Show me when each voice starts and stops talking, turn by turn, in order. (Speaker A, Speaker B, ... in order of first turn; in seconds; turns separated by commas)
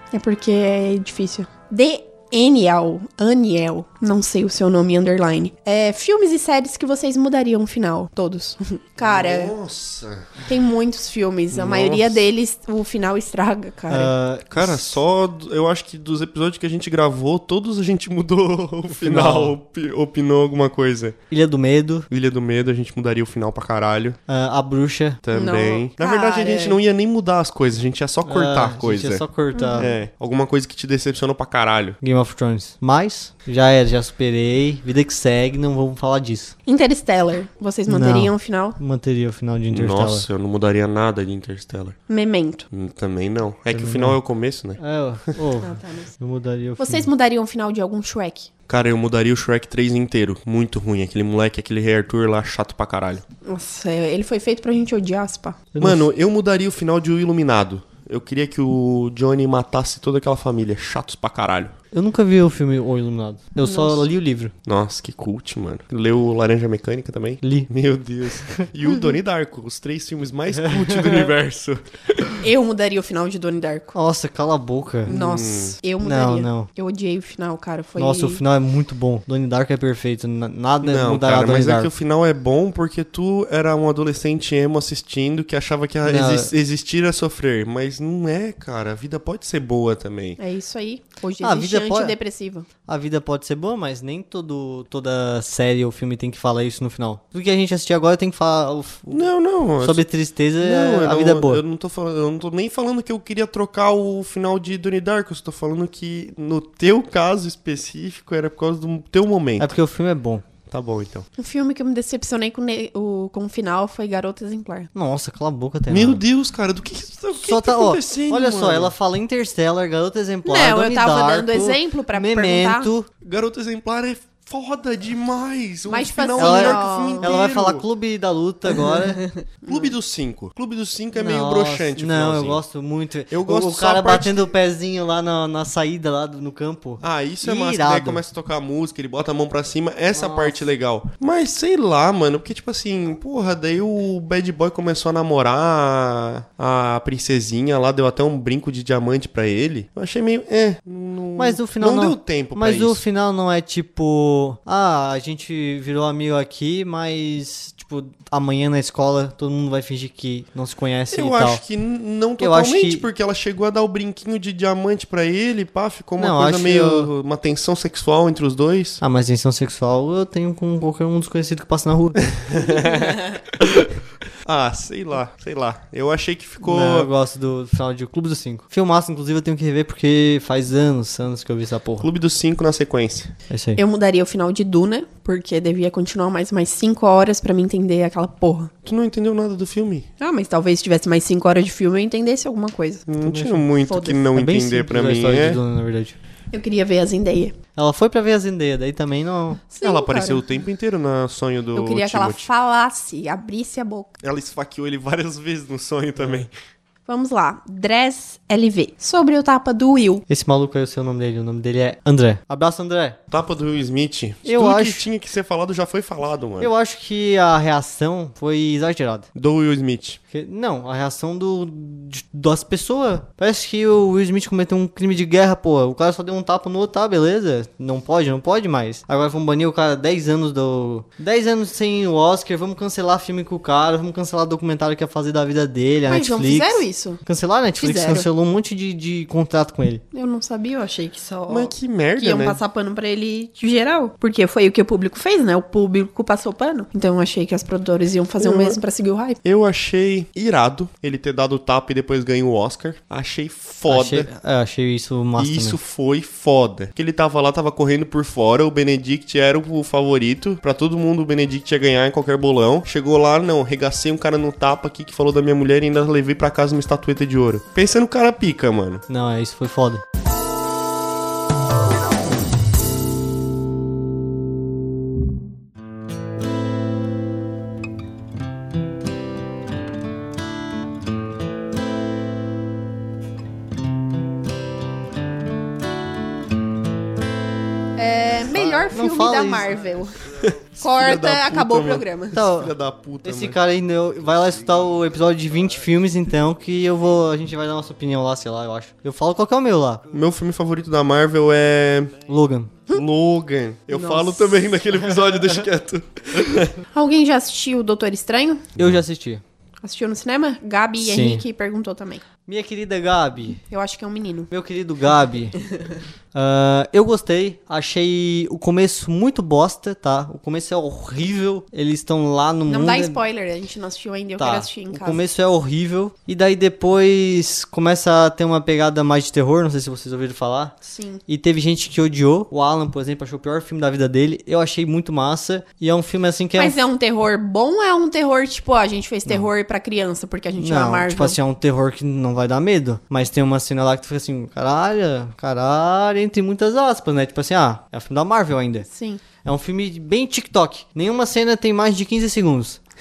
Speaker A: 0.1-9.5, Speaker B: 9.0-10.4, Speaker A: 10.5-14.1, Speaker B: 11.5-12.2, Speaker C: 13.9-15.0, Speaker B: 14.5-21.2, Speaker C: 18.9-19.6, Speaker C: 21.3-22.1, Speaker B: 22.1-24.2, Speaker C: 24.3-25.2, Speaker B: 25.2-29.2, Speaker A: 25.3-26.8, Speaker C: 28.2-29.9, Speaker A: 29.5-29.9, Speaker B: 29.8-32.0, Speaker C: 32.0-36.5, Speaker A: 36.7-38.8, Speaker C: 37.9-40.3, Speaker B: 39.7-42.0, Speaker A: 42.1-42.7, Speaker B: 42.7-44.8, Speaker C: 43.7-44.2, Speaker C: 44.8-47.1, Speaker A: 45.6-46.1, Speaker A: 46.8-48.5, Speaker B: 48.7-53.2, Speaker A: 53.5-55.6, Speaker C: 55.7-56.1, Speaker B: 55.8-61.7, Speaker C: 61.9-64.5, Speaker A: 63.6-64.1, Speaker B: 64.7-72.4, Speaker C: 67.4-67.7, Speaker C: 70.6-71.3, Speaker A: 72.4-74.0, Speaker C: 73.9-75.1, Speaker B: 75.1-75.8, Speaker A: 75.1-78.4, Speaker C: 76.0-76.7, Speaker C: 78.0-81.9, Speaker B: 80.8-90.4, Speaker C: 86.0-86.5, Speaker A: 90.4-92.7, Speaker C: 91.4-92.2, Speaker C: 92.9-99.2, Speaker B: 99.1-100.0, Speaker C: 99.8-101.6, Speaker B: 100.6-109.7, Speaker C: 109.6-110.4, Speaker B: 110.7-111.3, Speaker A: 111.4-114.9, Speaker C: 114.9-116.2, Speaker B: 115.9-118.9, Speaker C: 117.4-123.1, Speaker A: 120.5-122.9, Speaker B: 123.2-127.8, Speaker A: 125.9-127.3, Speaker C: 126.4-129.3, Speaker A: 128.9-129.9, Speaker B: 129.7-132.6, Speaker C: 131.2-138.2, Speaker B: 133.3-134.5, Speaker B: 137.0-153.0, Speaker C: 140.1-140.7, Speaker C: 151.4-161.6, Speaker B: 161.1-169.0, Speaker C: 162.4-163.1, Speaker C: 166.2-167.1, Speaker C: 169.0-172.3, Speaker B: 172.2-177.1, Speaker C: 176.6-182.1, Speaker B: 182.0-183.3, Speaker C: 183.5-183.8, Speaker A: 183.8-188.7, Speaker B: 188.8-190.1, Speaker A: 190.2-193.1, Speaker B: 193.1-195.6, Speaker C: 193.2-193.6, Speaker A: 193.9-194.3, Speaker C: 194.3-196.2, Speaker A: 196.5-197.6, Speaker C: 197.8-199.6, Speaker A: 199.7-200.4, Speaker B: 199.8-202.5, Speaker A: 201.8-204.1, Speaker B: 204.2-206.5, Speaker C: 206.2-206.4, Speaker A: 207.1-210.2, Speaker C: 210.3-213.2, Speaker B: 213.3-216.7, Speaker C: 214.4-215.1, Speaker C: 216.6-219.3, Speaker B: 219.3-220.2, Speaker C: 220.3-240.0, Speaker A: 236.1-237.2, Speaker A: 237.8-238.3, Speaker A: 240.1-249.4, Speaker B: 241.5-242.6, Speaker B: 248.4-248.8, Speaker B: 249.4-254.3, Speaker C: 253.9-255.8, Speaker B: 255.4-269.0, Speaker C: 269.1-270.0, Speaker A: 288.0-290.2, Speaker C: 288.6-289.7, Speaker B: 290.4-293.6, Speaker A: 290.8-292.4, Speaker C: 292.3-300.1, Speaker B: 300.1-302.2, Speaker C: 302.3-302.7, Speaker B: 302.9-306.7, Speaker A: 303.9-304.8, Speaker A: 306.9-308.7, Speaker C: 308.8-309.4, Speaker A: 309.8-312.2, Speaker C: 311.0-311.4, Speaker C: 312.5-313.6, Speaker A: 313.7-314.5, Speaker C: 314.5-315.6, Speaker C: 316.3-323.2, Speaker A: 322.7-325.2, Speaker C: 324.4-330.8, Speaker A: 330.9-331.2, Speaker C: 331.3-336.8, Speaker A: 336.6-341.4, Speaker C: 340.6-348.9, Speaker A: 348.9-349.2, Speaker C: 349.4-352.8